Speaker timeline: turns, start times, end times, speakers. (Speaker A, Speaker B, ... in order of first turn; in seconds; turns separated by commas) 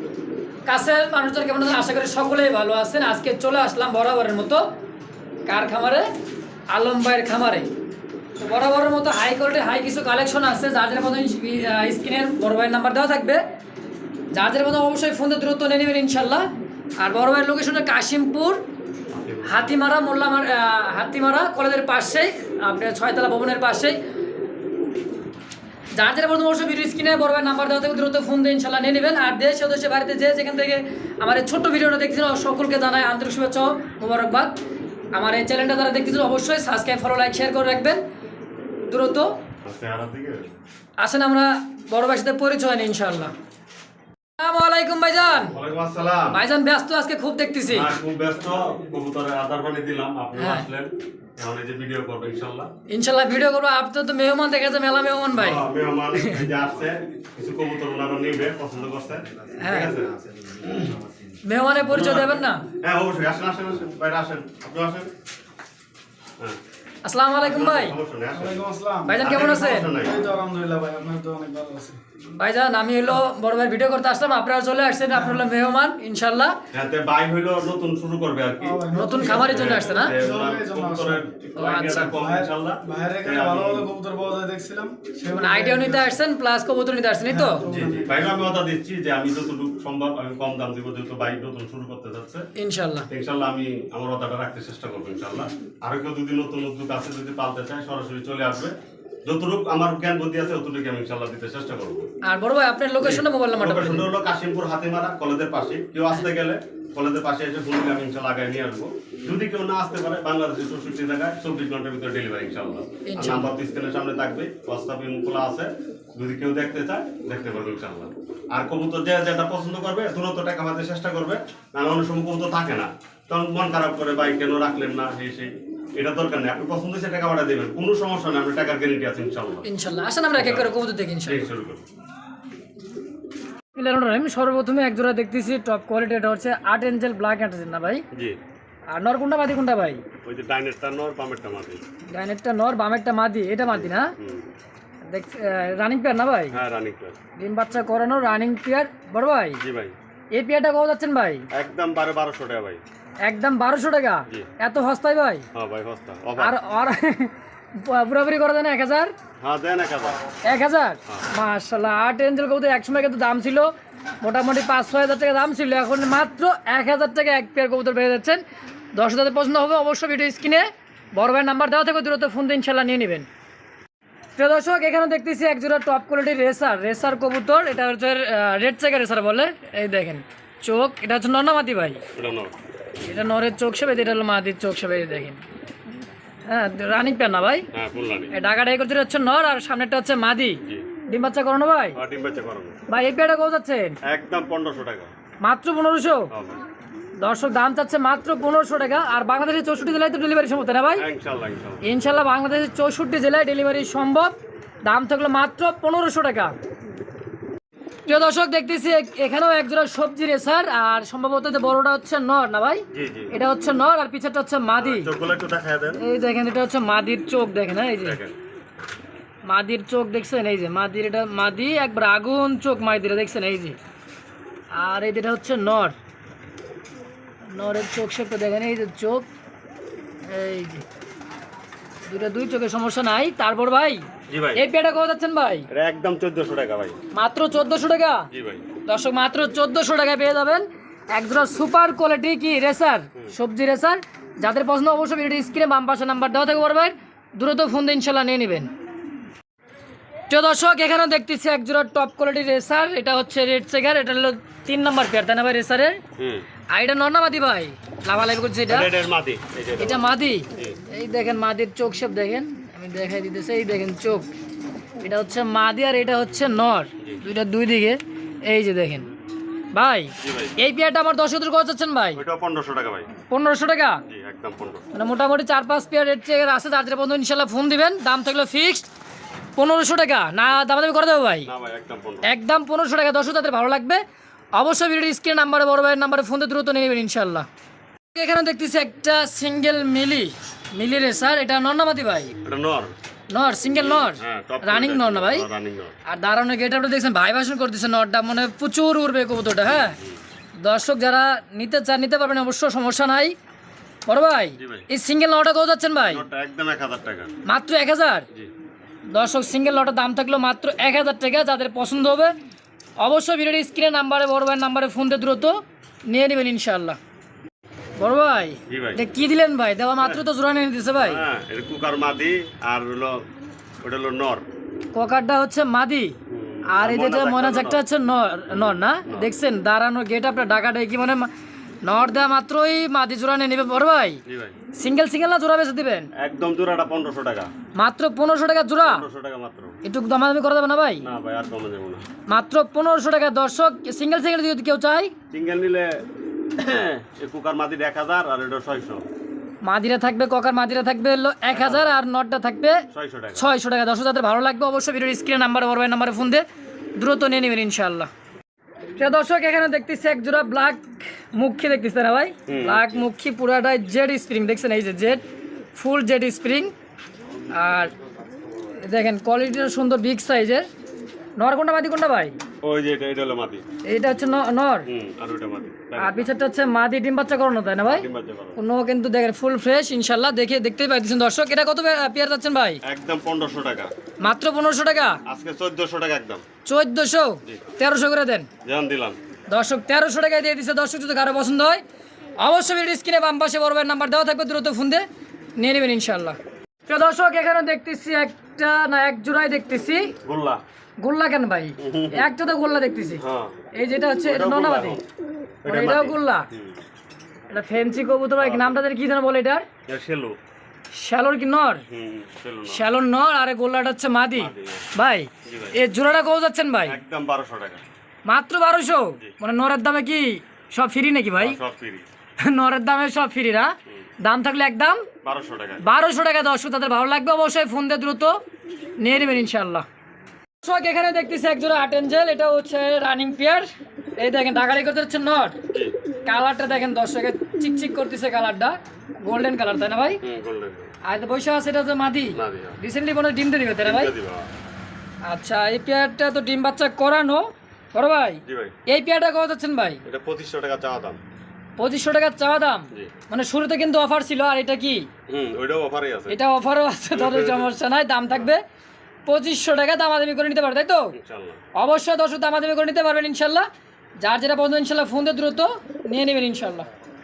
Speaker A: 0.7-4.7, Speaker A: 5.5-6.1, Speaker A: 6.7-7.7, Speaker A: 8.4-13.4, Speaker A: 14.3-16.5, Speaker A: 17.0-18.6, Speaker B: 19.1-19.7, Speaker A: 19.5-24.0, Speaker A: 25.9-34.6, Speaker A: 35.1-38.0, Speaker A: 38.9-39.4, Speaker B: 39.6-40.5, Speaker A: 41.0-43.3, Speaker A: 44.4-45.5, Speaker B: 45.4-46.4, Speaker A: 46.3-47.9, Speaker B: 47.7-52.7, Speaker A: 50.4-50.7, Speaker A: 52.9-56.4, Speaker B: 55.3-61.0, Speaker A: 59.6-59.9, Speaker A: 61.5-62.6, Speaker B: 61.8-65.1, Speaker A: 67.0-68.0, Speaker B: 67.4-68.6, Speaker C: 68.3-72.0, Speaker A: 69.0-69.9, Speaker B: 69.2-70.2, Speaker A: 72.3-76.6, Speaker B: 76.7-83.9, Speaker C: 78.6-86.2, Speaker A: 78.9-80.2, Speaker A: 81.6-82.2, Speaker A: 85.3-87.6, Speaker C: 87.3-88.3, Speaker B: 87.7-92.5, Speaker A: 92.6-93.1, Speaker B: 93.1-98.7, Speaker B: 99.2-102.1, Speaker A: 102.2-104.1, Speaker B: 103.0-129.7, Speaker A: 113.1-113.5, Speaker A: 129.6-131.5, Speaker B: 130.4-130.7, Speaker B: 131.3-131.8, Speaker A: 133.8-138.1, Speaker B: 138.1-138.4, Speaker A: 138.9-140.0, Speaker B: 140.2-141.8, Speaker A: 142.1-144.1, Speaker B: 143.7-144.5, Speaker A: 145.1-146.6, Speaker B: 146.5-147.2, Speaker A: 147.4-149.6, Speaker B: 149.6-149.9, Speaker A: 150.3-151.5, Speaker B: 151.5-152.8, Speaker A: 153.2-155.5, Speaker B: 155.5-156.6, Speaker A: 156.4-159.1, Speaker B: 159.4-160.2, Speaker A: 160.4-168.4, Speaker A: 168.9-173.3, Speaker A: 174.4-182.0, Speaker B: 182.1-182.5, Speaker A: 183.1-185.4, Speaker A: 186.5-187.7, Speaker B: 187.7-188.3, Speaker A: 188.3-192.0, Speaker B: 191.9-192.8, Speaker A: 192.9-194.0, Speaker B: 194.1-195.1, Speaker A: 195.4-196.3, Speaker B: 196.3-196.6, Speaker A: 197.2-201.1, Speaker B: 201.0-201.9, Speaker A: 201.8-206.6, Speaker A: 208.1-215.1, Speaker B: 212.9-213.3, Speaker B: 214.8-216.0, Speaker A: 216.0-218.2, Speaker B: 218.0-218.4, Speaker A: 219.4-223.8, Speaker A: 224.7-226.0, Speaker A: 227.5-229.3, Speaker A: 230.3-230.8, Speaker A: 232.1-235.7, Speaker B: 234.3-234.6, Speaker B: 235.7-237.0, Speaker A: 237.1-238.3, Speaker B: 238.3-238.7, Speaker A: 238.9-248.7, Speaker A: 250.3-256.0, Speaker B: 256.2-256.4, Speaker A: 256.7-258.9, Speaker B: 258.7-260.8, Speaker A: 259.8-264.3, Speaker A: 265.0-269.1, Speaker A: 269.7-272.2, Speaker B: 270.2-270.6, Speaker B: 272.1-273.1, Speaker A: 273.3-274.0, Speaker B: 274.1-274.9, Speaker A: 274.9-278.9, Speaker A: 279.6-281.5, Speaker B: 281.4-282.3, Speaker A: 282.2-284.0, Speaker A: 284.6-287.5, Speaker A: 288.1-292.4, Speaker B: 292.4-293.0, Speaker A: 293.3-295.4, Speaker B: 293.8-295.9, Speaker A: 296.1-300.0, Speaker B: 299.7-300.2, Speaker A: 300.6-303.4, Speaker A: 304.1-306.2, Speaker B: 304.6-304.9, Speaker B: 306.1-307.4, Speaker A: 307.4-308.3, Speaker A: 309.1-312.4, Speaker A: 313.0-317.0, Speaker A: 318.0-321.2, Speaker B: 318.7-319.0, Speaker B: 320.0-320.2, Speaker B: 321.0-323.3, Speaker B: 323.8-324.4, Speaker A: 324.9-326.2, Speaker B: 326.3-327.8, Speaker A: 326.7-331.3, Speaker B: 328.5-329.3, Speaker A: 331.8-334.2, Speaker B: 334.3-334.6, Speaker A: 334.7-336.1, Speaker B: 336.2-337.5, Speaker A: 337.8-339.1, Speaker B: 338.8-339.8, Speaker A: 339.8-341.1, Speaker B: 341.0-342.0, Speaker A: 342.3-345.1, Speaker B: 345.3-345.9, Speaker B: 346.6-349.0, Speaker A: 349.6-356.4, Speaker B: 351.5-351.9, Speaker B: 352.9-353.5, Speaker A: 357.0-358.1, Speaker A: 359.0-365.2, Speaker B: 362.5-363.0, Speaker A: 365.8-366.7, Speaker A: 367.5-367.9, Speaker A: 368.9-370.7, Speaker A: 371.4-372.4, Speaker B: 372.6-373.6, Speaker A: 373.9-374.9, Speaker B: 374.9-376.3, Speaker A: 376.0-382.8, Speaker B: 377.8-378.6, Speaker B: 382.8-383.9, Speaker A: 384.2-385.2, Speaker B: 385.3-386.4, Speaker A: 386.6-388.5, Speaker B: 388.6-389.2, Speaker A: 389.5-391.8, Speaker A: 392.4-395.1, Speaker A: 395.6-400.1, Speaker B: 400.2-400.6, Speaker A: 401.0-403.2, Speaker B: 401.8-402.3, Speaker B: 403.2-403.6, Speaker A: 403.8-405.0, Speaker B: 404.2-405.1, Speaker B: 405.6-406.8, Speaker A: 405.6-406.5, Speaker A: 407.5-409.6, Speaker B: 408.4-408.8, Speaker B: 409.9-410.4, Speaker A: 410.9-411.8, Speaker B: 411.9-412.9, Speaker A: 412.7-417.0, Speaker B: 414.4-414.9, Speaker B: 415.4-415.8, Speaker B: 416.9-417.8, Speaker A: 418.3-421.6, Speaker B: 421.4-422.1, Speaker A: 422.4-425.1, Speaker B: 425.2-425.8, Speaker A: 425.8-428.4, Speaker A: 429.0-429.9, Speaker A: 430.6-433.7, Speaker A: 434.2-435.6, Speaker A: 436.3-440.2, Speaker B: 440.2-440.9, Speaker A: 441.0-444.1, Speaker B: 442.3-442.8, Speaker B: 443.8-444.5, Speaker A: 445.2-450.0, Speaker B: 448.5-448.8, Speaker B: 450.1-451.2, Speaker A: 451.8-455.1, Speaker B: 455.3-456.4, Speaker A: 456.3-458.6, Speaker B: 457.1-457.7, Speaker A: 459.3-461.1, Speaker B: 461.1-461.6, Speaker A: 461.8-463.7, Speaker A: 464.2-466.9